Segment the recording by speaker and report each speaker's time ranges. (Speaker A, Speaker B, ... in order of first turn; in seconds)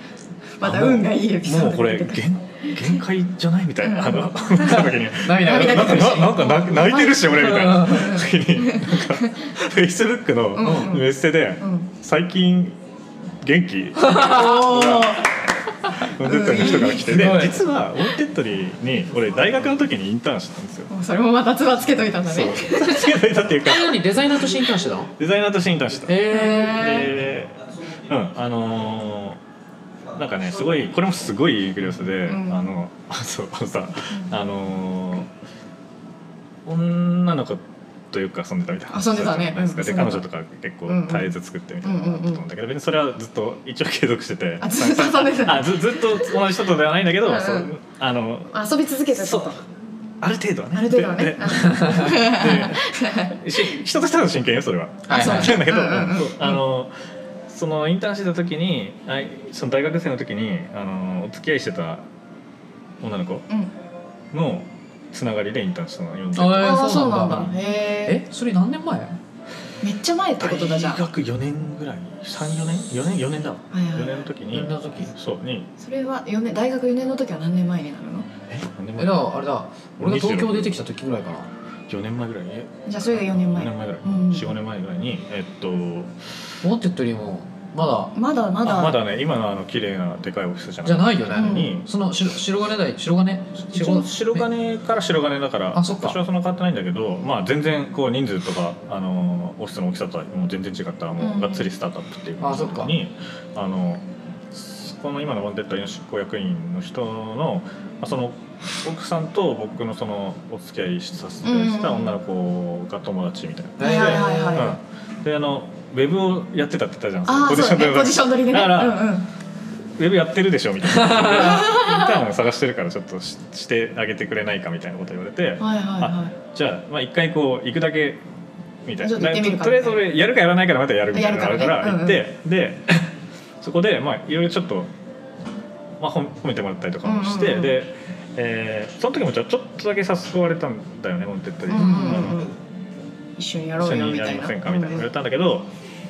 Speaker A: 0.6-3.0, 3.8-9.3, 10.5-11.9, 14.1-15.4, 16.2-17.4, 20.9-23.1, 26.3-27.1, 32.2-32.7, 38.9-40.2, 40.9-41.3, 41.8-42.4, 44.6-46.4, 47.2-47.7, 48.5-49.6, 50.7-53.4, 55.1-56.6, 66.5-68.2, 69.8-71.0, 73.7-74.2, 75.8-78.3, 82.8-84.5, 88.1-89.0, 91.3-91.8, 101.2-101.7, 111.4-112.2, 113.8-114.8, 117.2-119.2, 121.3-122.2, 125.6-126.3, 129.0-130.0, 131.1-132.2, 137.0-137.8, 141.7-142.5, 143.4-145.1
Speaker B: 0.6-12.8, 13.4-15.2, 16.0-20.9, 22.3-24.1, 25.2-29.4, 30.1-35.3, 36.6-48.5, 49.1-49.5, 50.2-56.9, 57.5-62.0, 63.0-63.5, 64.3-67.4, 70.4-75.7, 78.5-79.3, 80.0-80.8, 81.9-86.1, 88.6-91.9, 93.7-119.1, 120.0-128.2, 128.8-133.1, 133.6-134.9, 136.0-142.5, 143.8-145.7
Speaker C: 4.8-6.4, 7.4-8.1, 10.6-11.0, 14.1-14.4, 16.9-17.6, 23.6-25.1, 26.1-26.9, 51.6-52.0, 55.1-55.6, 66.3-69.2, 74.5-75.1, 79.0-81.5, 86.6-88.1, 90.8-94.5, 95.7-96.2, 102.4-102.9, 113.8-114.8, 120.9-121.6, 141.7-142.3